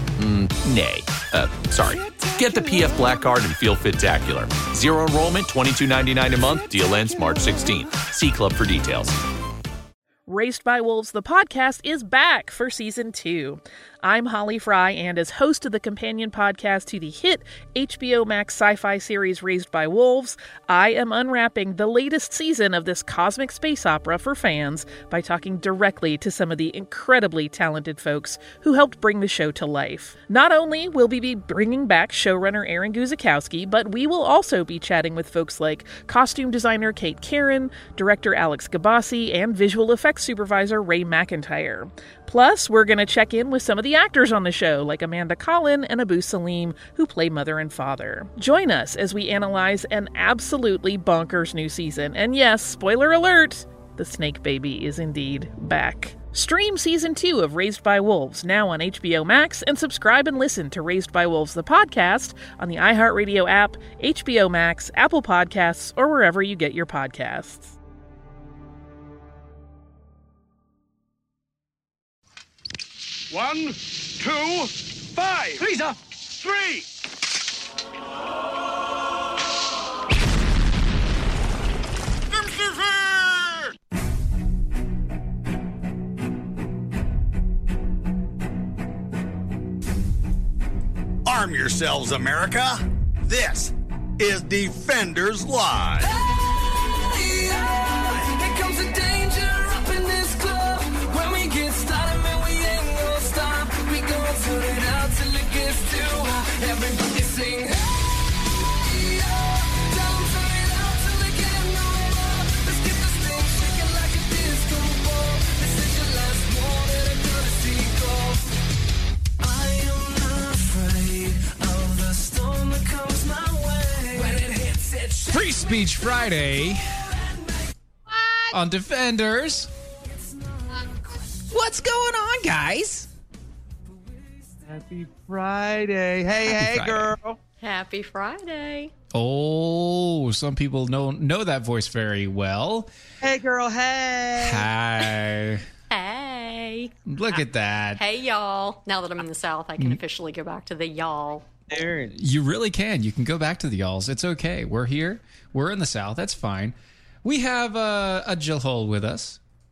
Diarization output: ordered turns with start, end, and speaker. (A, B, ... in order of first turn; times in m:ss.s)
0:00.2-0:09.2 A
0:10.3-1:07.8 B
1:13.3-1:14.5 C
1:15.5-1:16.8 C
1:31.3-1:36.1 D
1:36.0-1:58.5 E
1:59.4-2:05.5 E
2:05.3-2:06.9 F
2:07.2-2:07.5 E
2:08.5-2:09.7 F
2:10.5-2:10.9 E
2:11.5-2:13.1 F
2:14.6-2:17.4 G
2:16.4-2:17.2 F
2:17.6-2:18.9 H
2:19.1-2:22.9 F
2:23.2-2:24.7 G
2:24.4-2:25.6 F
2:25.9-2:27.0 H
2:27.1-2:28.0 F
2:28.0-2:31.5 H
2:31.7-2:32.2 G
2:32.2-2:39.4 F